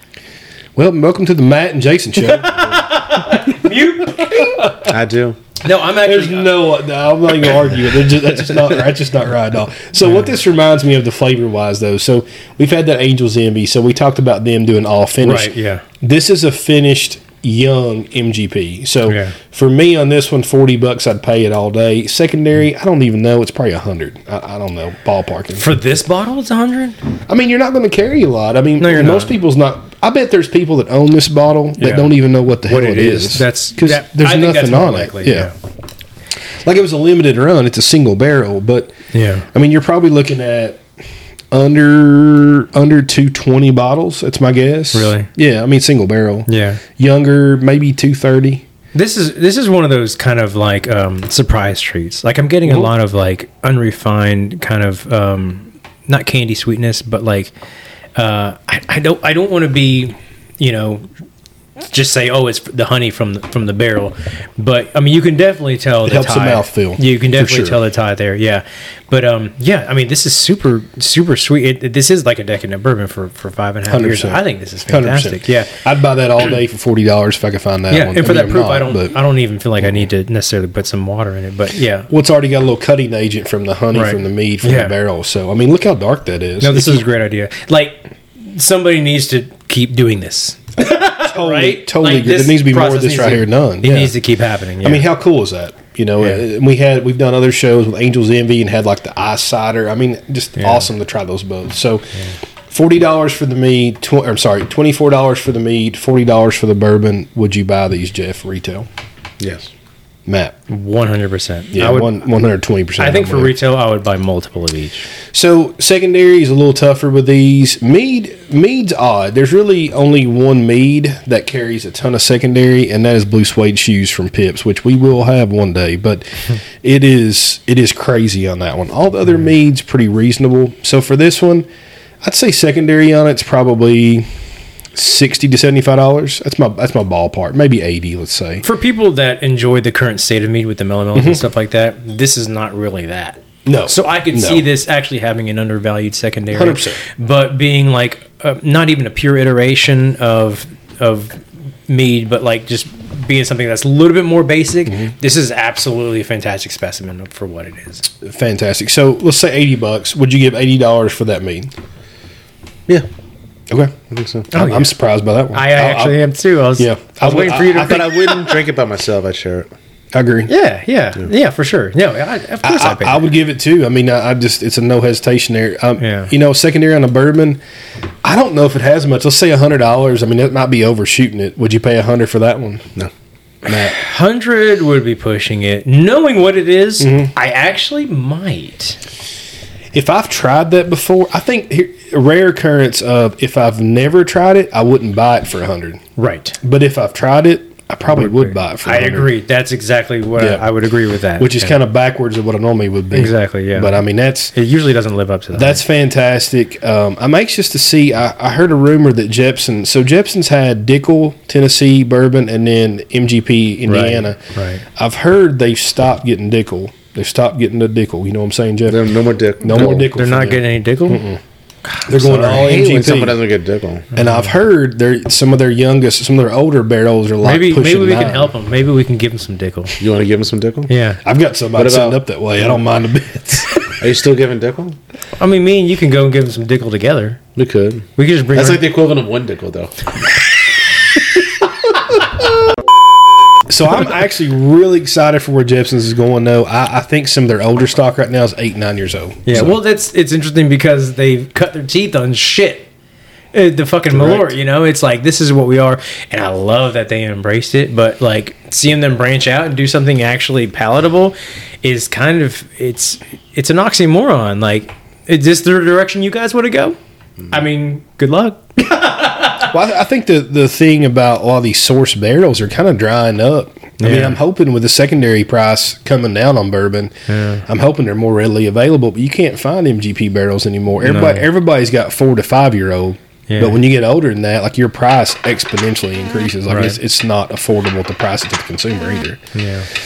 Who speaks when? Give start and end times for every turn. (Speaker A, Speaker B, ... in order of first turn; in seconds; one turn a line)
Speaker A: 0.8-2.9
Speaker B: 2.3-4.6
Speaker A: 3.7-4.8
Speaker C: 4.8-5.4
Speaker B: 5.6-6.7
Speaker A: 6.0-25.6
Speaker B: 15.2-15.8
Speaker B: 19.1-19.4
Speaker B: 25.5-27.0
Speaker A: 27.3-35.5
Speaker B: 28.8-29.3
Speaker B: 31.8-32.1
Speaker B: 32.7-35.5
Speaker A: 36.6-38.9
Speaker B: 39.1-39.5
Speaker A: 39.5-40.8
Speaker A: 41.5-48.6
Speaker B: 44.9-45.3
Speaker B: 46.5-46.8
Speaker B: 48.9-57.5
Speaker B: 58.1-61.0
Speaker B: 61.9-75.8
Speaker A: 66.0-67.8
Speaker A: 73.9-79.2
Speaker B: 77.9-82.1
Speaker A: 82.1-87.1
Speaker B: 83.9-84.9
Speaker B: 86.6-95.1
Speaker A: 90.9-94.2
Speaker A: 94.8-102.1
Speaker B: 100.6-100.9
Speaker A: 102.7-108.9
Speaker C: 109.4-109.7
Speaker A: 110.2-110.5
Speaker B: 110.7-112.2
Speaker A: 111.7-113.6
Speaker B: 113.0-115.1
Speaker A: 115.3-131.7
Speaker A: 132.2-134.3
Speaker A: 134.9-138.6
Speaker B: 138.6-158.0
Speaker A: 141.1-141.4
Speaker A: 143.7-144.7
Speaker A: 146.5-147.0
Speaker A: 154.9-155.1
Speaker A: 158.2-161.7
Speaker A: 163.7-166.2
Speaker C: 164.1-164.5
Speaker B: 164.5-164.9
Speaker B: 165.5-168.3
Speaker A: 166.8-168.4
Speaker C: 167.8-169.7
Speaker A: 170.1-170.5
Speaker B: 170.5-173.3
Speaker A: 172.6-177.6
Speaker B: 176.0-176.3
Speaker A: 178.2-182.9
Speaker A: 183.6-183.9
Speaker B: 183.7-189.0
Speaker A: 187.0-187.3
Speaker A: 189.9-196.0
Speaker B: 196.2-196.6
Speaker A: 196.6-199.3
Speaker B: 198.1-201.8
Speaker A: 200.4-200.7
Speaker A: 201.4-204.5
Speaker B: 203.1-204.0
Speaker B: 204.5-205.8
Speaker A: 205.5-214.4
Speaker B: 213.8-214.8
Speaker A: 214.9-219.0
Speaker C: 218.9-220.1
Speaker A: 219.6-221.4
Speaker B: 219.7-221.2
Speaker B: 221.8-222.9
Speaker A: 222.1-223.4
Speaker C: 222.6-224.1
Speaker B: 224.1-224.5
Speaker A: 224.1-228.6
Speaker B: 227.4-229.9
Speaker C: 230.0-230.9
Speaker B: 230.9-231.2
Speaker A: 231.2-233.8
Speaker C: 231.7-232.2
Speaker C: 234.0-235.0
Speaker B: 235.4-237.4
Speaker C: 237.6-240.1
Speaker B: 238.2-238.8
Speaker A: 243.7-249.8
Speaker B: 249.4-252.9
Speaker B: 253.5-267.0
Speaker A: 254.1-254.5
Speaker B: 267.5-269.7
Speaker A: 269.6-289.4
Speaker B: 274.0-274.4
Speaker B: 277.3-277.6
Speaker B: 281.0-281.5
Speaker B: 283.5-283.8
Speaker B: 286.7-287.0
Speaker B: 289.5-289.9